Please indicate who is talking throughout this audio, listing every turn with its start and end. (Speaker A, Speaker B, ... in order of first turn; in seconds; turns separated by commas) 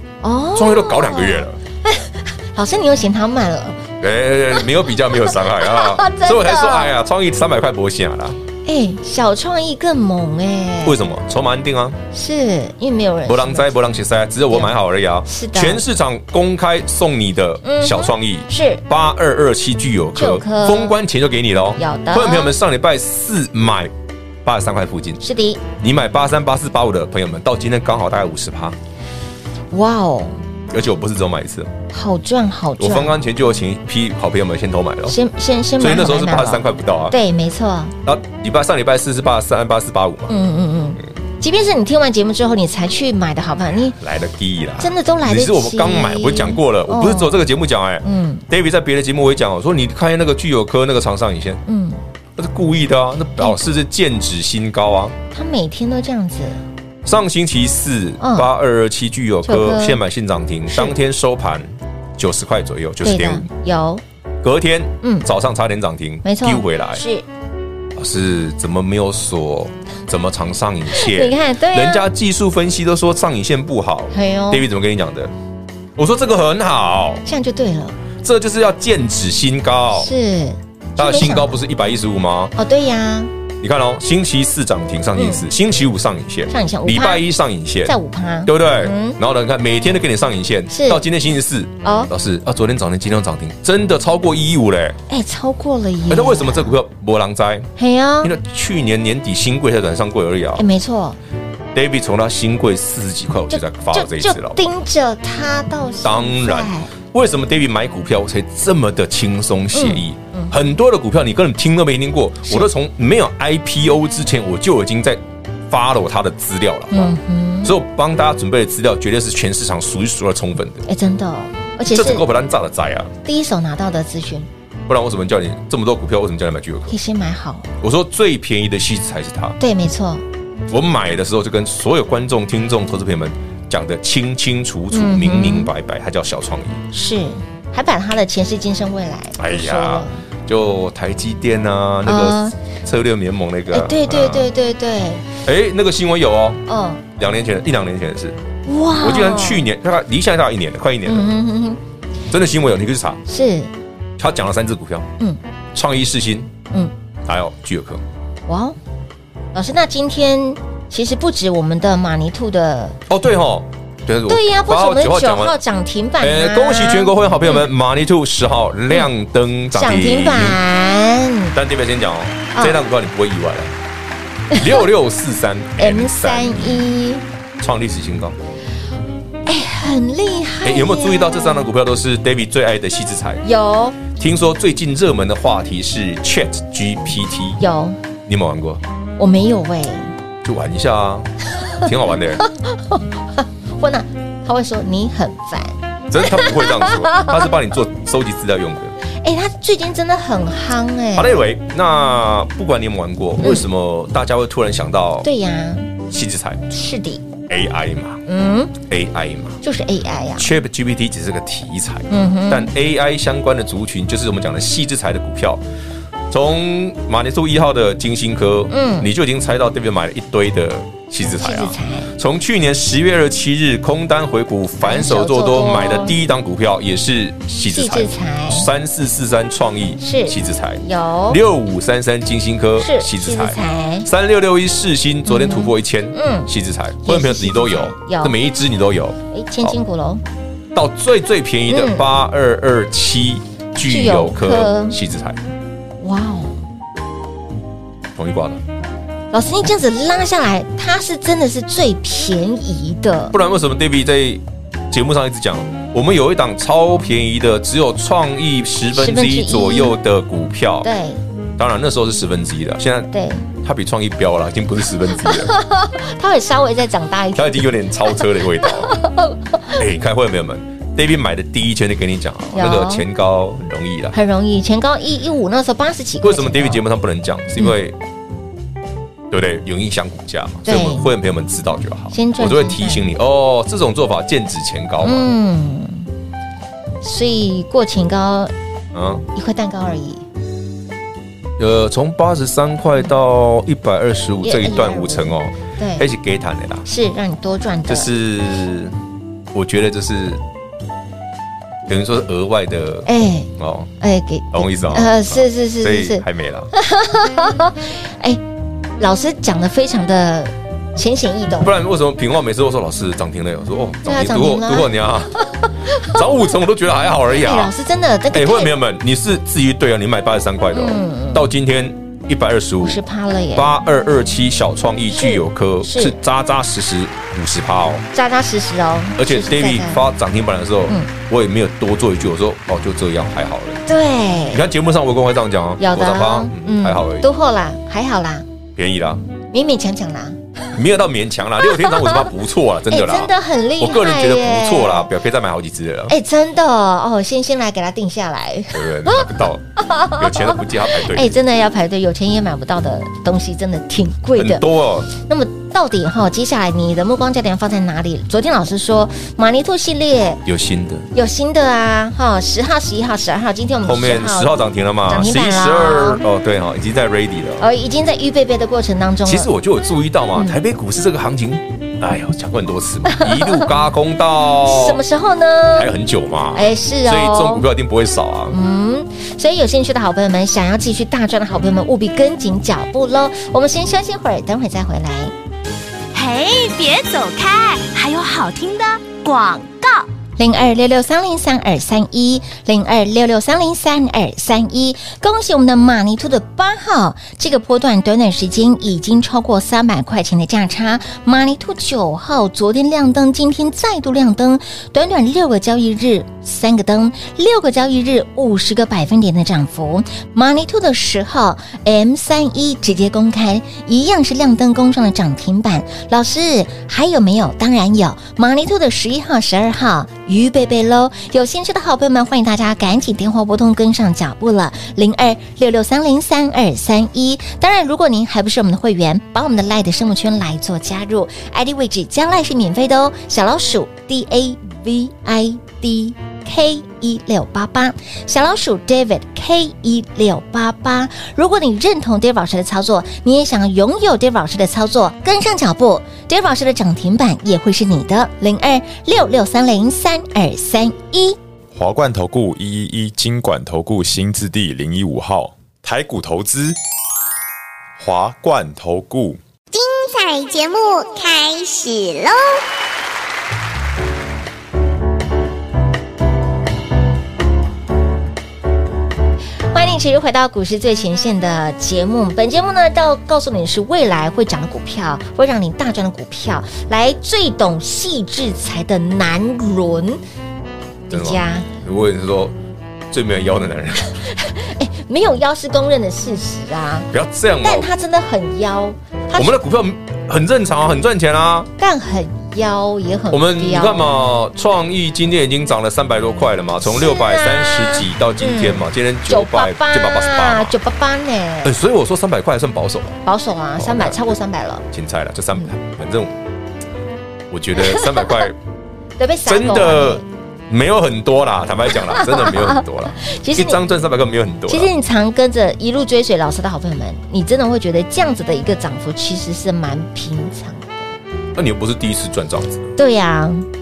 Speaker A: 0.2-3.9, Speaker B: 0.5-1.6, Speaker B: 4.0-8.4, Speaker A: 4.5-7.0, Speaker A: 8.7-11.0, Speaker B: 10.8-12.0, Speaker A: 12.1-13.7, Speaker B: 13.3-23.9, Speaker A: 15.2-15.8, Speaker A: 17.6-18.8, Speaker A: 20.2-21.0, Speaker A: 21.8-22.6, Speaker B: 24.4-25.2, Speaker A: 25.2-25.6, Speaker B: 25.8-28.8, Speaker A: 29.7-30.4, Speaker B: 30.7-31.7, Speaker A: 31.9-33.2, Speaker B: 32.8-35.2, Speaker A: 35.1-38.0, Speaker B: 35.8-37.2, Speaker B: 38.0-40.4, Speaker A: 40.3-44.0, Speaker B: 43.9-51.6, Speaker A: 44.8-47.5, Speaker A: 48.0-48.4, Speaker A: 51.7-52.0, Speaker B: 52.4-55.1, Speaker A: 55.3-56.6, Speaker B: 57.0-63.5, Speaker A: 58.2-58.5, Speaker A: 59.4-60.0, Speaker A: 60.7-61.0, Speaker A: 63.0-64.0, Speaker B: 64.4-67.0, Speaker A: 65.0-65.3, Speaker A: 66.2-67.2, Speaker B: 68.0-75.3, Speaker A: 70.9-72.1, Speaker A: 74.1-74.7, Speaker B: 76.0-77.2, Speaker A: 77.2-78.0, Speaker B: 78.2-80.1, Speaker A: 79.9-81.6, Speaker B: 81.0-82.5, Speaker A: 82.6-83.3, Speaker B: 83.6-95.0, Speaker A: 85.2-85.5, Speaker A: 86.5-87.3, Speaker A: 87.8-89.2, Speaker A: 90.7-91.0, Speaker A: 91.8-92.1, Speaker A: 95.1-96.8, Speaker B: 96.1-97.7, Speaker A: 97.8-98.3, Speaker B: 98.2-100.7, Speaker A: 100.6-101.2, Speaker B: 101.7-104.6, Speaker A: 103.5-106.9, Speaker B: 106.0-120.8, Speaker A: 109.7-110.5, Speaker A: 116.9-117.8, Speaker A: 120.9-122.3, Speaker B: 121.9-123.1, Speaker A: 123.2-124.5, Speaker B: 124.9-127.0, Speaker A: 126.9-127.7, Speaker B: 127.8-129.6, Speaker A: 129.6-130.2, Speaker B: 130.7-136.8, Speaker A: 134.9-135.7, Speaker A: 136.9-140.2, Speaker B: 139.4-144.5, Speaker A: 142.1-142.6, Speaker A: 143.7-145.2, Speaker B: 145.4-146.6, Speaker A: 146.7-147.0, Speaker B: 147.2-148.4, Speaker A: 148.7-149.7, Speaker B: 149.0-151.3, Speaker A: 151.1-151.8, Speaker B: 152.3-153.2, Speaker A: 153.3-153.7, Speaker B: 154.2-155.1, Speaker B: 155.7-156.5, Speaker B: 157.2-158.0, Speaker A: 158.5-158.8, Speaker A: 159.5-163.0, Speaker B: 163.1-165.6, Speaker A: 164.3-167.7, Speaker B: 166.2-170.6, Speaker A: 169.7-171.6, Speaker B: 171.5-173.7, Speaker A: 172.5-172.8, Speaker A: 174.5-174.8, Speaker B: 174.5-176.9, Speaker A: 175.8-177.2, Speaker B: 177.6-178.4, Speaker A: 179.5-181.7, Speaker B: 180.6-183.4, Speaker A: 183.4-184.0, Speaker B: 184.1-187.6, Speaker A: 187.6-188.0, Speaker B: 188.3-188.8, Speaker A: 189.2-190.1, Speaker B: 190.4-191.3, Speaker B: 191.8-192.4, Speaker A: 192.4-197.4, Speaker B: 196.1-198.9, Speaker A: 199.2-201.4, Speaker B: 201.2-205.3, Speaker A: 205.2-205.9, Speaker B: 206.1-206.7, Speaker A: 206.7-207.2, Speaker B: 207.5-208.2, Speaker A: 208.3-208.7, Speaker B: 208.8-209.6, Speaker A: 209.6-210.5, Speaker B: 210.4-215.6, Speaker A: 212.1-212.7, Speaker B: 216.3-239.8, Speaker A: 218.7-219.1, Speaker A: 221.4-222.1, Speaker A: 224.8-226.2, Speaker A: 227.7-228.7, Speaker A: 230.0-231.4, Speaker A: 232.8-234.1, Speaker A: 235.3-236.5, Speaker A: 237.0-238.4, Speaker A: 239.3-240.2, Speaker B: 240.7-245.4, Speaker A: 241.7-242.1, Speaker A: 243.8-245.0, Speaker A: 246.0-246.6, Speaker B: 248.2-248.6, Speaker A: 249.3-253.3, Speaker B: 253.3-260.9, Speaker A: 258.9-260.0, Speaker A: 260.8-261.2, Speaker B: 261.6-263.1, Speaker A: 263.1-263.5, Speaker B: 263.6-265.5, Speaker A: 265.2-267.7, Speaker B: 267.4-269.0, Speaker A: 268.6-269.7, Speaker B: 269.7-274.2, Speaker A: 272.5-273.1, Speaker A: 274.1-276.8, Speaker B: 276.2-278.0, Speaker B: 279.3-285.3, Speaker A: 280.6-281.1, Speaker A: 282.1-283.1, Speaker A: 285.0-286.1, Speaker A: 287.0-288.5, Speaker B: 288.9-289.2, Speaker A: 289.3-290.2, Speaker B: 291.6-296.9, Speaker A: 294.4-296.1, Speaker A: 296.9-298.1, Speaker B: 297.9-299.0, Speaker B: 299.5-300.4, Speaker B: 301.9-303.9, Speaker A: 303.1-308.4, Speaker B: 304.5-306.7, Speaker A: 309.0-311.7, Speaker B: 311.6-315.4, Speaker A: 314.1-316.2, Speaker B: 316.0-317.7, Speaker A: 317.3-318.7, Speaker B: 318.3-323.0, Speaker A: 320.7-321.5, Speaker A: 322.8-323.8, Speaker B: 323.6-328.1, Speaker A: 325.1-326.2, Speaker A: 328.1-330.0, Speaker B: 329.2-333.8, Speaker A: 333.9-334.6, Speaker B: 334.5-337.3, Speaker A: 335.8-338.5, Speaker B: 338.8-339.2, Speaker A: 339.5-340.4, Speaker B: 340.7-346.1, Speaker A: 341.6-342.3, Speaker A: 342.9-345.1, Speaker A: 346.1-360.4, Speaker B: 348.7-351.4, Speaker B: 354.4-355.1, Speaker B: 360.5-361.1, Speaker A: 361.1-364.5, Speaker B: 363.8-367.7, Speaker A: 365.1-366.2, Speaker A: 367.6-369.5, Speaker B: 369.2-375.0, Speaker A: 373.1-373.7, Speaker A: 374.6-375.9, Speaker B: 375.7-378.6, Speaker A: 376.5-377.7, Speaker A: 378.5-385.3, Speaker C: 386.1-390.1, Speaker A: 390.4-451.4, Speaker D: 451.7-456.8, Speaker D: 458.0-459.4, Speaker E: 459.7-462.6, Speaker A: 469.7-480.2, Speaker A: 481.1-481.7, Speaker B: 481.1-482.6, Speaker B: 483.1-484.2, Speaker A: 484.2-487.1, Speaker B: 487.1-487.9, Speaker A: 487.6-489.6, Speaker B: 489.3-491.7, Speaker A: 491.8-494.2, Speaker B: 493.3-500.7, Speaker A: 496.8-501.8, Speaker B: 501.6-503.2, Speaker A: 503.2-504.9, Speaker B: 503.8-504.2, Speaker B: 504.9-506.4, Speaker B: 507.5-508.6, Speaker A: 507.8-508.5, Speaker A: 509.2-510.2, Speaker B: 509.5-514.9, Speaker A: 511.9-513.8, Speaker A: 514.7-521.1, Speaker B: 521.5-522.9, Speaker A: 523.0-523.7